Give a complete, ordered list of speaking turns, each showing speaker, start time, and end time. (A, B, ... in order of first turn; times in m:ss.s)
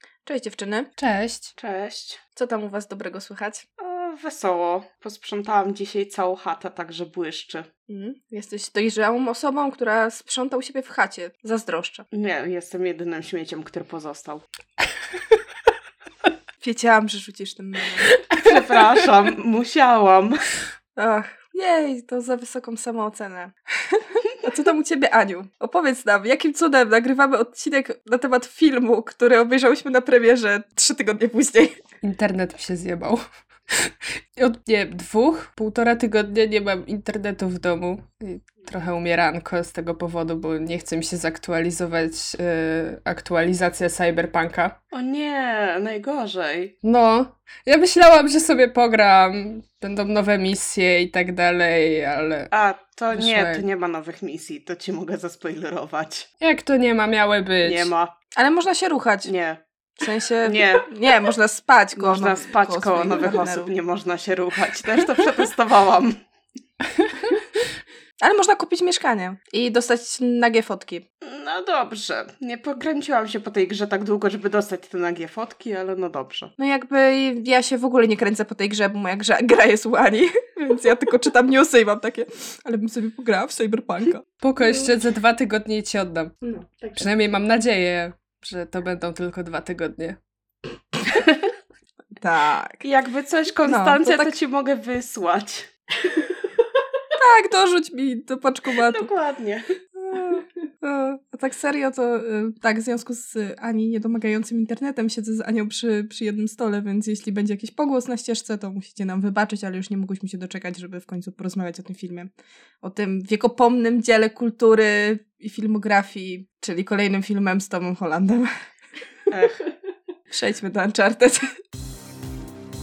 0:00.2-0:00.9 A
0:01.0-0:01.5 B
0:01.6-0:02.2 C
0:02.4-0:03.6 A
0:03.8-0:07.7 C
0:07.9-0:12.0 A
0:12.1-0:14.4 C
0:16.6-0:18.1 A
0:18.3-0:20.4 C
0:21.0-0:31.8 A
0:32.0-0:33.2 B
0:33.7-0:44.8 B
0:44.9-0:46.7 C
0:46.8-0:52.5 B
0:52.5-0:56.3 C
0:53.1-0:53.6 B
0:56.4-0:57.9 B
0:57.6-0:58.1 C
0:58.3-0:59.3 A
0:59.2-0:59.6 C
1:00.0-1:03.7 A
1:00.4-1:00.9 C
1:02.0-1:06.2 C
1:08.2-1:11.0 A
1:11.2-1:16.5 C
1:16.6-1:24.9 A
1:24.4-1:26.4 B
1:26.4-1:26.9 A
1:26.9-1:30.2 B
1:32.2-1:32.8 A
1:32.8-1:35.7 C
1:33.6-1:34.3 A
1:37.1-1:39.1 A
1:38.8-1:39.6 C
1:40.0-1:52.3 A
1:52.8-1:58.5 A
1:59.3-1:59.6 C
2:00.3-2:01.5 A